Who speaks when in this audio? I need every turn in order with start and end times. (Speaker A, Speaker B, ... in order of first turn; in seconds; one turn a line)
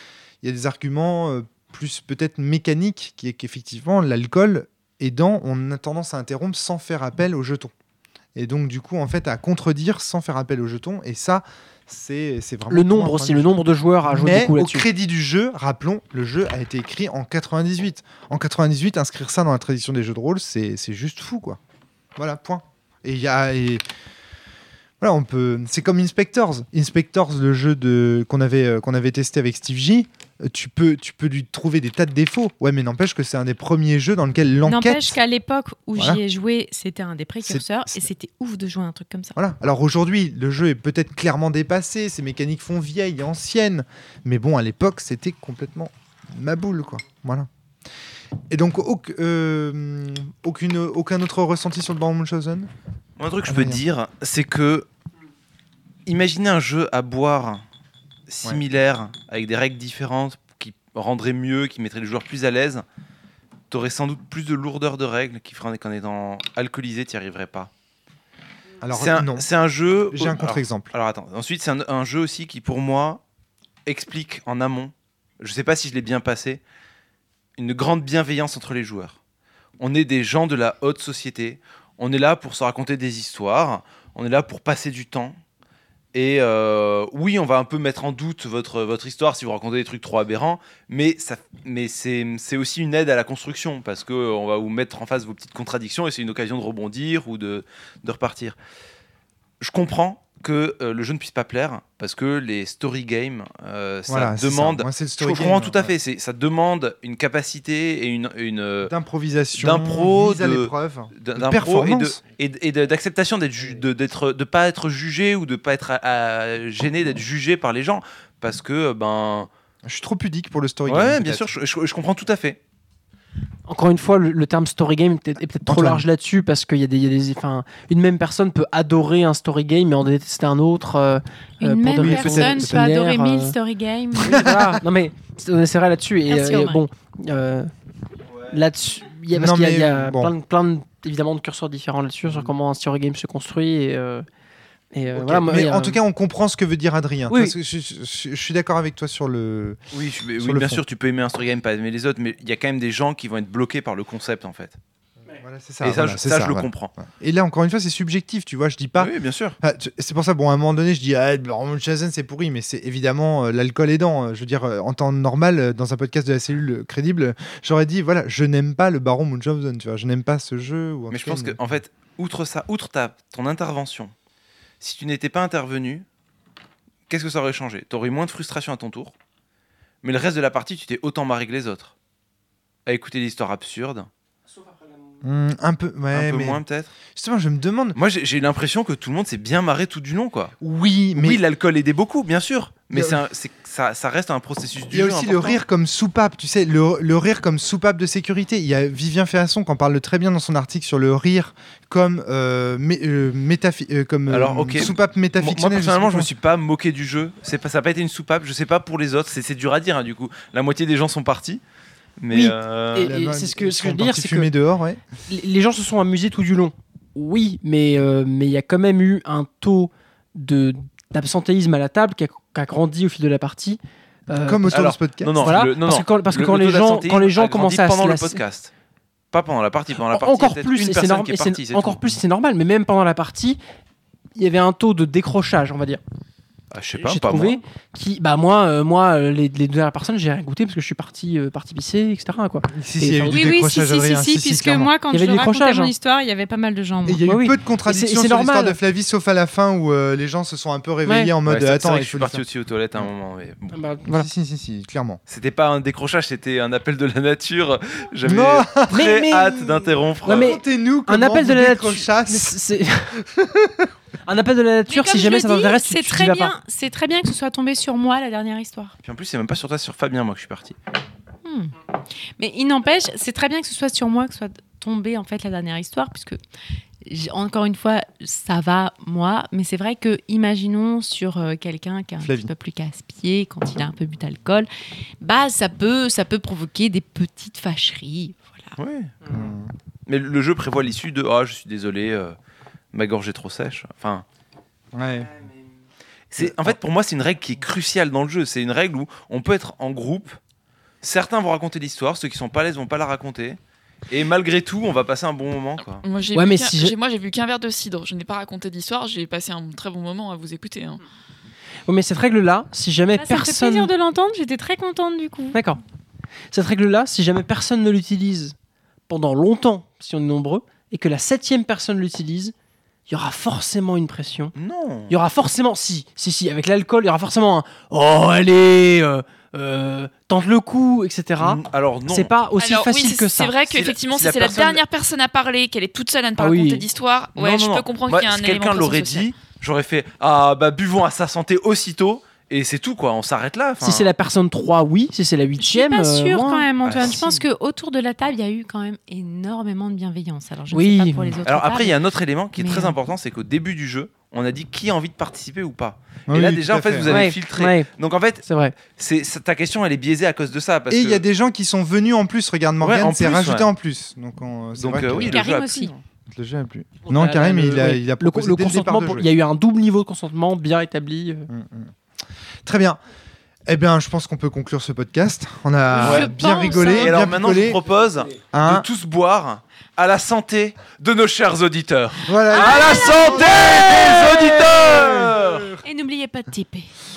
Speaker A: 0.4-7.7
Speaker A: 8.3-13.5
Speaker B: 12.7-14.9
Speaker A: 14.0-21.6
Speaker A: 22.1-23.8
Speaker A: 25.0-35.2
Speaker C: 34.6-39.4
Speaker A: 37.4-38.1
Speaker A: 39.3-47.5
Speaker A: 48.5-52.7
Speaker D: 53.2-54.9
Speaker A: 53.5-53.8
Speaker D: 56.0-57.6
Speaker D: 58.3-62.8
Speaker D: 63.7-67.7
Speaker A: 68.8-69.5
Speaker D: 68.9-73.2
Speaker A: 70.1-70.9
Speaker D: 73.8-76.6
Speaker D: 77.6-79.2
Speaker D: 79.8-85.4
Speaker D: 86.1-98.6
Speaker D: 99.6-108.9
Speaker A: 104.1-105.9
Speaker A: 108.9-112.2
Speaker D: 109.6-119.5
Speaker A: 119.8-121.5
Speaker D: 120.8-122.6
Speaker B: 123.7-133.5
Speaker A: 125.7-126.0
Speaker C: 131.6-134.5
Speaker A: 132.0-132.8
Speaker B: 134.2-137.7
Speaker A: 134.3-134.6
Speaker C: 136.3-136.8
Speaker B: 138.5-144.2
Speaker A: 139.3-140.3
Speaker A: 142.3-142.5
Speaker B: 144.9-146.0
Speaker A: 145.1-149.8
Speaker D: 149.9-154.8
Speaker A: 150.4-150.8
Speaker A: 155.3-171.6
Speaker D: 155.8-156.9
Speaker D: 159.0-159.6
Speaker D: 171.1-174.1
Speaker D: 174.8-176.0
Speaker D: 177.1-179.1
Speaker D: 180.0-181.9
Speaker D: 182.8-184.1
Speaker A: 185.2-188.0
Speaker D: 186.1-186.9
Speaker D: 187.9-190.5
Speaker A: 190.6-191.4
Speaker D: 191.2-195.6
Speaker A: 192.9-193.2
Speaker A: 194.9-206.3
Speaker D: 204.3-211.6
Speaker D: 212.2-213.2
Speaker B: 212.3-214.5
Speaker A: 213.0-215.0
Speaker B: 215.3-224.8
Speaker A: 224.3-225.6
Speaker D: 224.7-228.7
Speaker B: 225.4-228.4
Speaker D: 229.3-232.1
Speaker B: 229.9-233.6
Speaker B: 234.3-236.0
Speaker D: 236.7-237.6
Speaker B: 237.0-243.6
Speaker A: 242.7-244.9
Speaker C: 243.3-247.2
Speaker B: 245.1-245.9
Speaker A: 247.1-252.4
Speaker B: 247.2-248.8
Speaker B: 251.1-251.3
Speaker D: 251.4-253.7
Speaker B: 253.7-254.3
Speaker A: 254.0-255.2
Speaker D: 255.3-260.6
Speaker A: 258.2-259.0
Speaker B: 258.9-263.1
Speaker A: 260.3-262.6
Speaker A: 263.2-263.9
Speaker B: 264.3-266.5
Speaker C: 264.9-268.9
Speaker D: 269.0-270.7
Speaker C: 271.4-271.7
Speaker C: 272.4-276.4
Speaker C: 277.1-284.7
Speaker A: 282.2-282.5
Speaker C: 285.2-288.7
Speaker D: 288.8-289.1
Speaker A: 289.3-289.7
Speaker D: 290.1-292.4
Speaker D: 292.9-294.2
Speaker A: 294.9-295.3
Speaker D: 296.3-300.4
Speaker A: 296.4-296.8
Speaker D: 301.0-306.0
Speaker E: 306.0-311.0
Speaker B: 306.3-306.9
Speaker B: 311.9-313.9
Speaker C: 313.1-315.6
Speaker B: 315.5-315.8
Speaker B: 316.5-318.5
Speaker B: 319.1-322.5
Speaker B: 323.1-324.5
Speaker D: 324.5-325.1
Speaker B: 325.1-333.6
Speaker D: 331.4-332.4
Speaker E: 332.6-339.3
Speaker D: 333.7-334.8
Speaker B: 336.4-336.9
Speaker D: 337.3-344.1
Speaker B: 343.8-346.7
Speaker C: 345.6-352.0
Speaker D: 346.8-347.4
Speaker B: 350.7-351.4
Speaker D: 351.4-361.2
Speaker C: 352.6-352.9
Speaker A: 356.3-357.2
Speaker B: 357.1-357.9
Speaker B: 358.4-358.8
Speaker A: 360.9-365.4
Speaker D: 362.8-363.7
Speaker D: 364.7-366.0
Speaker C: 365.2-365.9
Speaker A: 366.3-369.3
Speaker B: 367.1-371.5
Speaker A: 371.5-371.9
Speaker A: 372.6-373.0
Speaker A: 373.7-377.8
Speaker C: 375.9-377.2
Speaker D: 376.0-385.7
Speaker A: 378.5-378.9
Speaker A: 382.3-385.6
Speaker C: 382.5-383.6
Speaker C: 385.8-386.9